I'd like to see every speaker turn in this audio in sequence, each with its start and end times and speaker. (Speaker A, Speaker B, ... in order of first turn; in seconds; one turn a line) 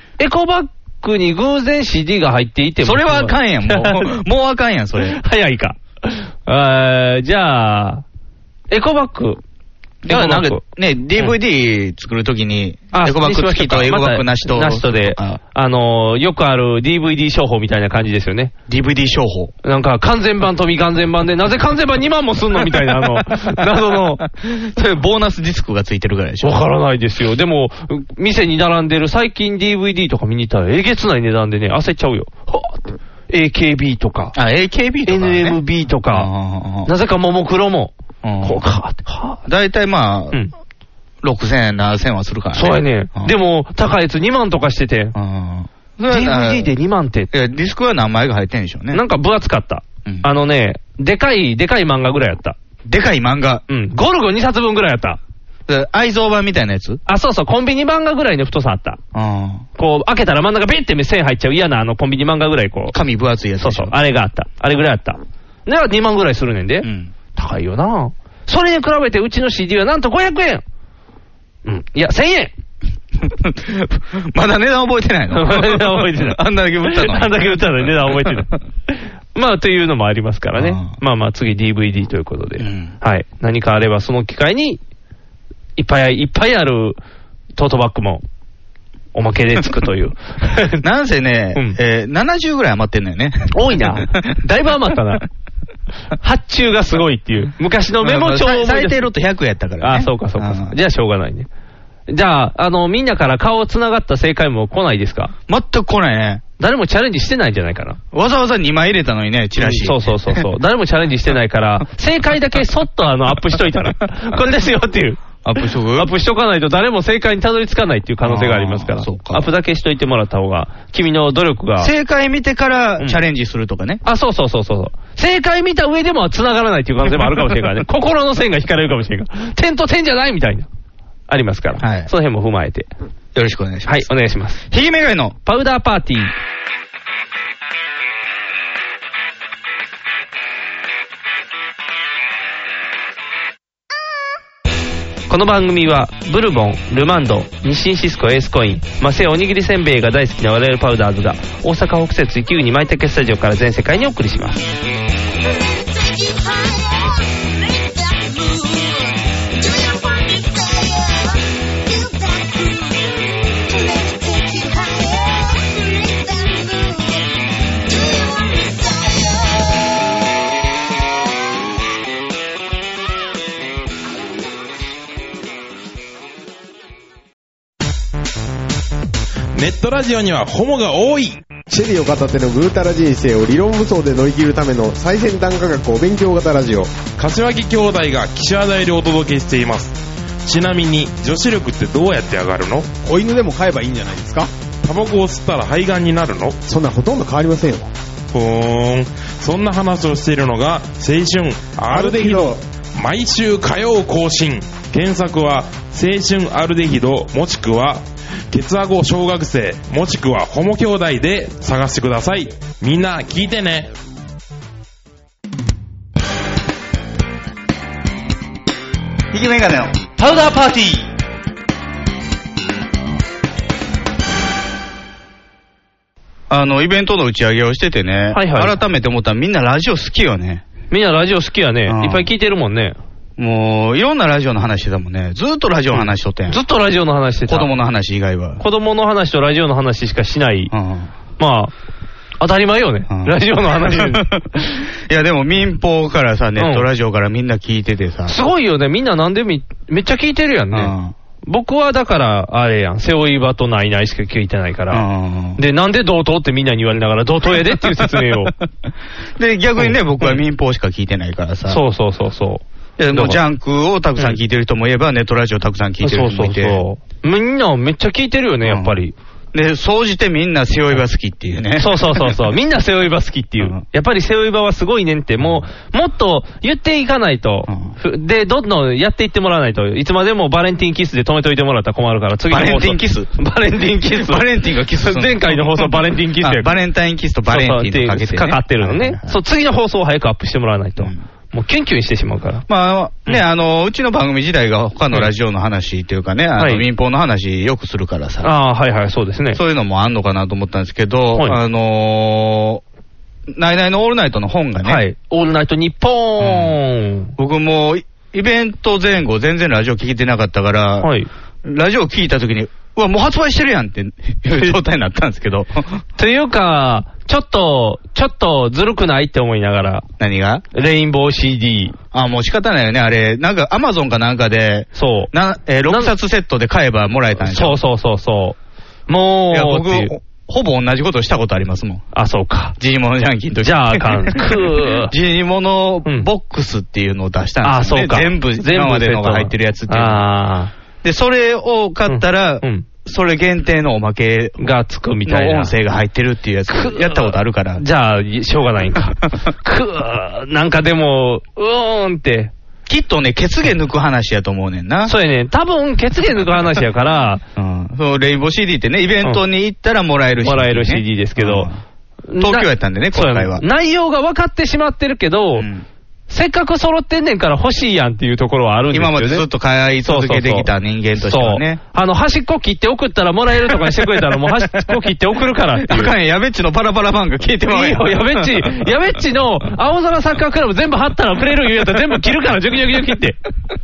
Speaker A: 0.2-4.2
Speaker B: 2.8-5.2
Speaker A: 5.0-8.0
Speaker A: 8.7-9.4
Speaker B: 10.0-15.4
Speaker A: 10.1-10.6
Speaker A: 12.9-18.5
Speaker B: 18.7-19.5
Speaker A: 19.6-24.2
Speaker B: 22.6-23.6
Speaker B: 24.2-26.6
Speaker A: 26.4-34.3
Speaker B: 34.3-36.9
Speaker A: 35.0-36.3
Speaker A: 36.9-39.4
Speaker B: 38.2-38.6
Speaker B: 39.5-40.4
Speaker B: 41.2-43.3
Speaker A: 42.5-45.1
Speaker B: 45.1-46.7
Speaker A: 46.1-47.3
Speaker B: 47.3-49.0
Speaker A: 48.9-52.5
Speaker B: 52.8-53.6
Speaker A: 53.7-55.2
Speaker B: 55.7-57.0
Speaker A: 57.1-59.0
Speaker B: 59.1-59.6
Speaker A: 59.8-63.0
Speaker B: 62.9-63.9
Speaker A: 63.6-70.6
Speaker B: 66.8-67.1
Speaker A: 71.6-72.5
Speaker B: 73.2-78.4
Speaker A: 75.3-84.8
Speaker B: 80.5-81.0
Speaker B: 82.6-82.9
Speaker A: 85.8-87.0
Speaker A: 87.6-88.2
Speaker A: 89.1-90.8
Speaker B: 90.8-94.3
Speaker A: 93.5-95.2
Speaker A: 96.2-99.0
Speaker B: 98.0-100.8
Speaker A: 99.8-101.5
Speaker A: 102.1-105.3
Speaker B: 105.5-106.4
Speaker A: 106.6-108.0
Speaker B: 108.1-110.4
Speaker A: 109.6-115.2
Speaker B: 115.4-116.1
Speaker A: 115.9-121.9
Speaker B: 118.2-119.5
Speaker B: 121.8-124.0
Speaker A: 124.0-130.7
Speaker A: 131.3-132.9
Speaker B: 131.8-132.1
Speaker B: 133.3-134.1
Speaker A: 133.8-134.6
Speaker B: 134.7-135.3
Speaker A: 135.4-136.3
Speaker A: 145.3-154.6
Speaker C: 155.4-169.8
Speaker D: 179.5-181.4
Speaker E: 181.7-187.0
Speaker D: 187.2-192.9
Speaker E: 193.0-194.5
Speaker D: 194.8-196.6
Speaker E: 196.7-197.9
Speaker D: 198.3-213.9
Speaker E: 201.9-202.6
Speaker B: 219.3-221.1
Speaker B: 226.5-230.6
Speaker A: 228.3-228.8
Speaker A: 230.9-233.0
Speaker B: 231.9-232.3
Speaker B: 233.4-236.6
Speaker A: 235.9-237.7
Speaker B: 237.5-238.6
Speaker A: 238.6-240.7
Speaker B: 240.7-241.1
Speaker A: 241.4-241.7
Speaker A: 242.4-244.3
Speaker B: 243.1-248.3
Speaker A: 246.6-246.9
Speaker A: 248.3-250.9
Speaker B: 250.7-251.1
Speaker A: 251.4-255.0
Speaker B: 254.9-255.6
Speaker A: 255.6-258.5
Speaker B: 257.7-258.3
Speaker B: 259.4-261.8
Speaker A: 259.8-260.4
Speaker A: 261.7-263.4
Speaker B: 263.0-266.8
Speaker A: 266.0-269.1
Speaker B: 268.6-268.9
Speaker B: 269.5-272.3
Speaker A: 271.8-286.8
Speaker B: 275.4-275.6
Speaker B: 277.7-277.9
Speaker B: 282.5-283.3
Speaker B: 284.0-289.4
Speaker A: 287.5-292.6
Speaker B: 292.7-298.5
Speaker A: 296.6-296.9
Speaker A: 298.4-299.6
Speaker B: 299.5-302.8
Speaker B: 303.5-305.0
Speaker A: 304.8-307.3
Speaker B: 306.4-306.8
Speaker B: 307.4-311.1
Speaker A: 311.0-311.3
Speaker B: 311.6-316.0
Speaker A: 316.2-320.0
Speaker B: 320.2-320.6
Speaker A: 320.7-321.9
Speaker B: 322.1-327.8
Speaker A: 324.9-325.3
Speaker A: 325.9-326.1
Speaker A: 327.4-328.6
Speaker A: 329.1-330.1
Speaker B: 329.5-332.0
Speaker A: 332.1-332.8
Speaker B: 332.8-340.2
Speaker A: 333.6-335.1
Speaker A: 337.6-340.7
Speaker B: 341.0-344.6
Speaker A: 342.1-342.9
Speaker A: 344.6-345.7
Speaker B: 345.2-347.8
Speaker A: 346.7-352.5
Speaker B: 352.9-355.1
Speaker A: 355.1-357.4
Speaker B: 357.6-361.8
Speaker A: 360.4-361.7
Speaker A: 362.3-365.7
Speaker B: 362.4-363.6
Speaker B: 365.6-365.8
Speaker A: 366.3-369.4
Speaker B: 368.9-371.8
Speaker A: 370.0-376.1
Speaker B: 375.8-378.8
Speaker A: 377.7-383.4